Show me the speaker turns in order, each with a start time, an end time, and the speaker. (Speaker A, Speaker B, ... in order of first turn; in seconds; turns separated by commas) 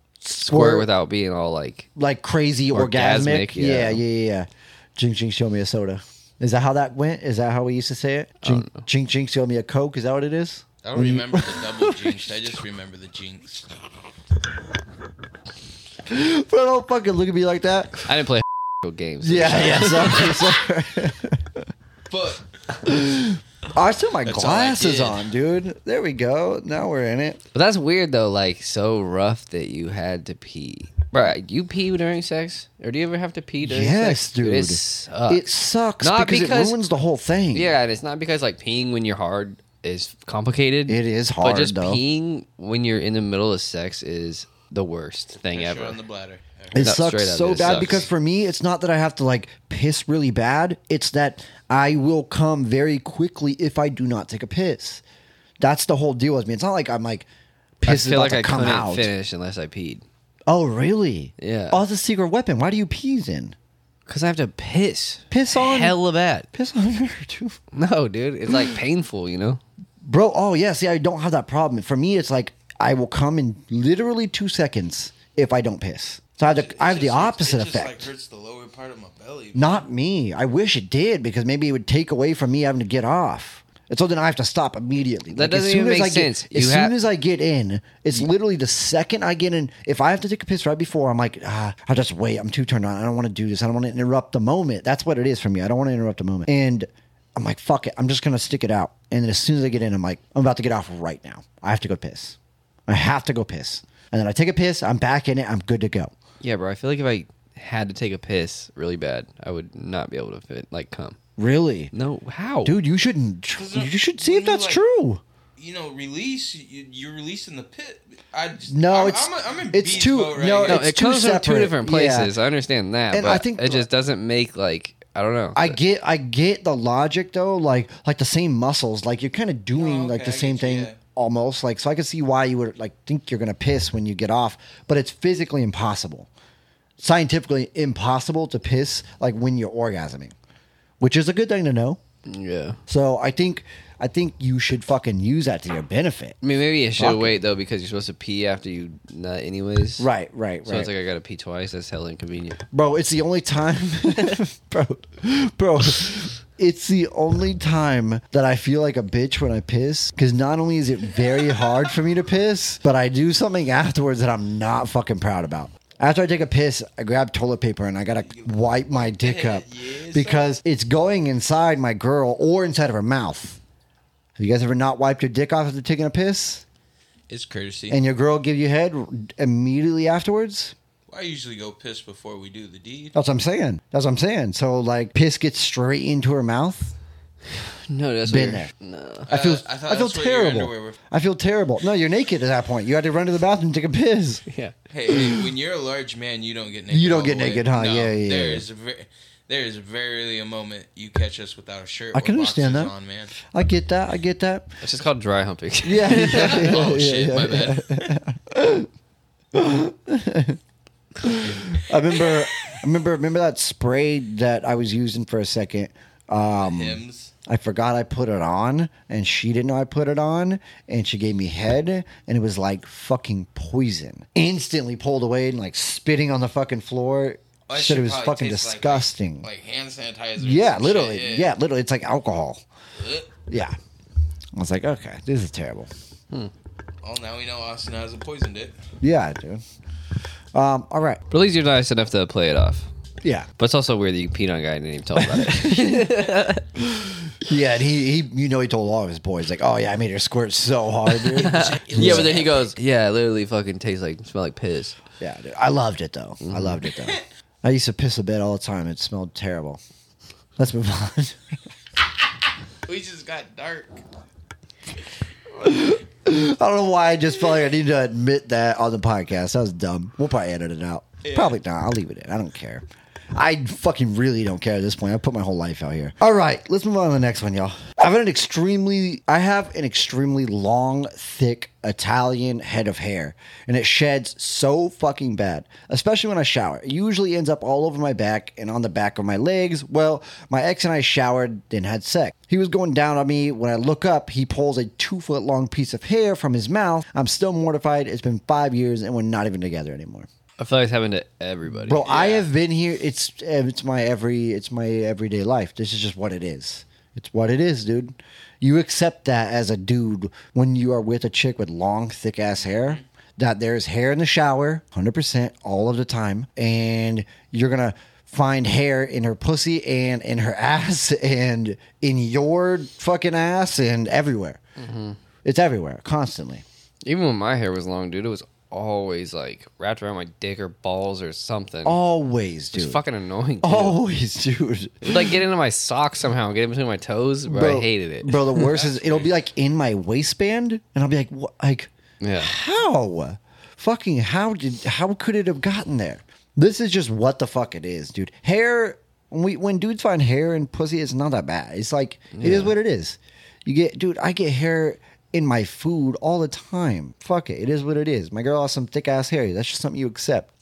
Speaker A: 0.2-0.9, Speaker B: 0.4-1.9, Speaker A: 1.9-12.2, Speaker B: 2.7-4.0, Speaker B: 8.4-8.8, Speaker C: 10.8-13.7, Speaker A: 16.1-18.0, Speaker B: 18.0-20.4, Speaker A: 19.2-21.6, Speaker C: 22.1-22.4, Speaker A: 22.8-27.4, Speaker C: 24.2-25.2, Speaker B: 27.5-35.5, Speaker A: 33.6-37.7, Speaker B: 36.0-36.8, Speaker B: 37.5-46.0, Speaker A: 40.9-42.0, Speaker C: 45.5-46.8, Speaker A: 46.7-55.0, Speaker B: 46.8-48.1, Speaker A: 55.6-57.3, Speaker A: 57.8-59.1, Speaker B: 57.8-60.0, Speaker A: 60.5-63.5, Speaker B: 61.4-61.8, Speaker B: 64.1-66.5, Speaker A: 65.3-66.0, Speaker A: 66.5-67.6, Speaker B: 67.7-69.6, Speaker A: 70.0-78.1, Speaker C: 76.4-79.8, Speaker A: 79.5-106.1, Speaker B: 85.3-86.9, Speaker B: 106.4-111.2, Speaker A: 111.4-111.9, Speaker B: 111.9-112.8, Speaker A: 112.6-115.2, Speaker C: 113.5-114.8, Speaker C: 115.6-120.8, Speaker A: 118.7-122.3, Speaker B: 120.7-125.8, Speaker A: 123.1-123.8, Speaker A: 125.5-136.3, Speaker C: 129.7-131.0, Speaker A: 137.0-140.3, Speaker A: 141.0-142.0, Speaker B: 142.3-142.8, Speaker A: 142.9-146.4, Speaker B: 146.4-150.1, Speaker A: 147.0-147.4, Speaker A: 150.0-150.9, Speaker B: 150.7-152.6, Speaker A: 152.7-173.6, Speaker C: 168.3-170.5, Speaker A: 174.4-176.6, Speaker C: 177.3-178.0, Speaker A: 177.9-180.7, Speaker C: 181.1-183.1, Speaker A: 183.1-186.9, Speaker B: 187.7-189.3, Speaker A: 188.3-188.7, Speaker A: 189.3-194.4, Speaker C: 189.3-191.0, Speaker B: 194.5-194.7, Speaker C: 194.9-203.3, Speaker A: 195.1-195.4, Speaker A: 196.9-198.6, Speaker A: 202.1-202.9, Speaker A: 203.4-204.7, Speaker B: 204.8-206.7, Speaker A: 205.8-208.9, Speaker C: 206.2-208.2, Speaker A: 209.5-210.6, Speaker A: 211.2-229.5, Speaker C: 216.4-217.3, Speaker C: 227.7-231.5, Speaker A: 230.4-232.6, Speaker C: 233.0-233.3, Speaker A: 233.5-233.8, Speaker A: 234.6-235.9, Speaker C: 237.0-238.8, Speaker A: 239.0-239.6, Speaker A: 240.5-241.2, Speaker B: 241.3-242.9, Speaker A: 243.2-243.5, Speaker B: 243.6-246.6, Speaker A: 245.2-246.2, Speaker A: 246.8-252.7, Speaker C: 251.2-252.7, Speaker B: 251.3-255.0, Speaker A: 255.2-259.8, Speaker B: 256.4-256.8, Speaker A: 260.6-261.4, Speaker C: 262.9-264.0, Speaker A: 265.6-272.8, Speaker C: 271.2-271.5, Speaker A: 273.3-300.3, Speaker B: 300.6-302.0, Speaker A: 301.9-324.6, Speaker C: 302.0-302.5, Speaker B: 324.8-325.2, Speaker A: 325.4-326.6, Speaker B: 327.0-332.0, Speaker A: 331.8-333.0, Speaker B: 332.7-334.0, Speaker A: 333.6-335.4, Speaker B: 335.0-338.7, Speaker A: 337.5-360.5, Speaker C: 338.7-339.3, Speaker B: 342.2-342.5, Speaker B: 352.3-352.7